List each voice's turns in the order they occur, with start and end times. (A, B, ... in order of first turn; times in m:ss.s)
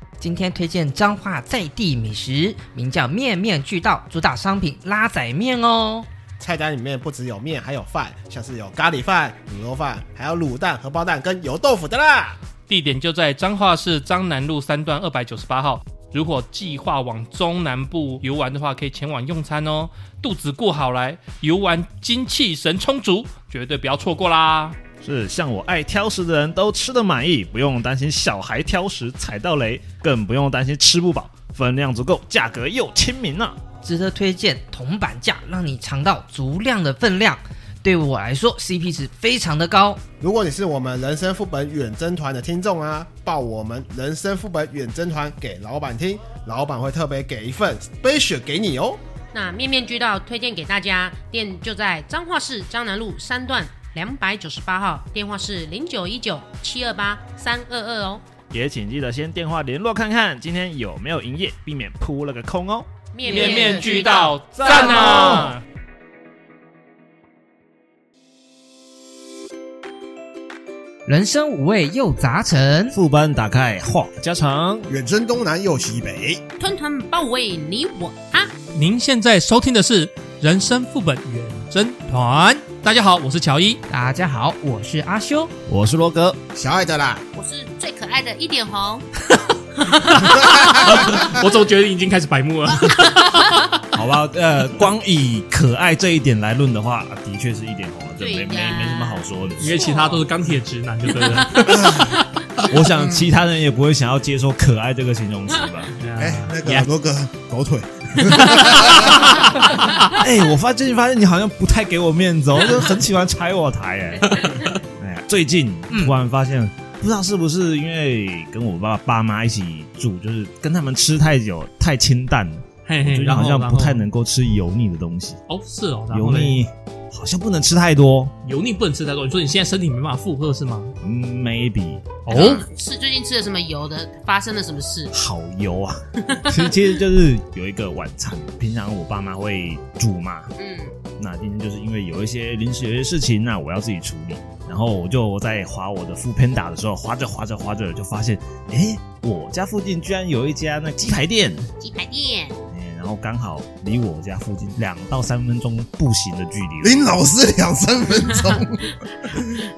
0:00.2-0:06.1 A
0:06.4-0:12.4 B
0:12.7-0:24.8 C
0:25.0-0:33.6 D
0:33.8-0:40.0 A
0:40.2-0:49.0 B
0:49.3-0:58.2 E
0:58.5-1:05.6 D
1:03.1-1:04.4 E
1:03.3-1:05.6 C
1:03.3-1:03.6 A
1:11.1-1:13.0 A
1:12.9-1:14.9 D
1:14.9-1:16.4 B
1:16.6-1:18.5 E
1:18.8-1:23.8 C
1:23.9-1:25.5 A
1:25.7-1:26.4 D
1:26.6-1:27.2 B
1:27.3-1:29.1 E
1:29.4-1:33.8 C
1:30.2-1:31.3 B
1:33.9-1:39.9 D
1:38.2-1:40.2 E
1:39.6-1:42.6 C
1:41.7-1:42.1 B
1:42.7-1:46.0 D
1:46.0-1:46.9 C
1:46.2-1:49.4 B
1:48.3-1:50.1 C
1:50.1-2:05.4 D
1:55.9-1:56.2 A
2:02.9-2:04.1 C
2:05.5-2:06.6 C
2:06.1-2:08.3 D
2:08.4-2:11.0 C
2:11.0-2:12.2 D
2:12.3-2:12.7 C
2:12.3-2:15.1 E
2:15.1-2:20.5 D
2:16.3-2:16.8 E
2:20.6-2:21.0 E
2:21.2-2:31.7 D
2:31.8-2:32.6 E
2:32.7-2:37.0 D
2:36.8-2:39.7 B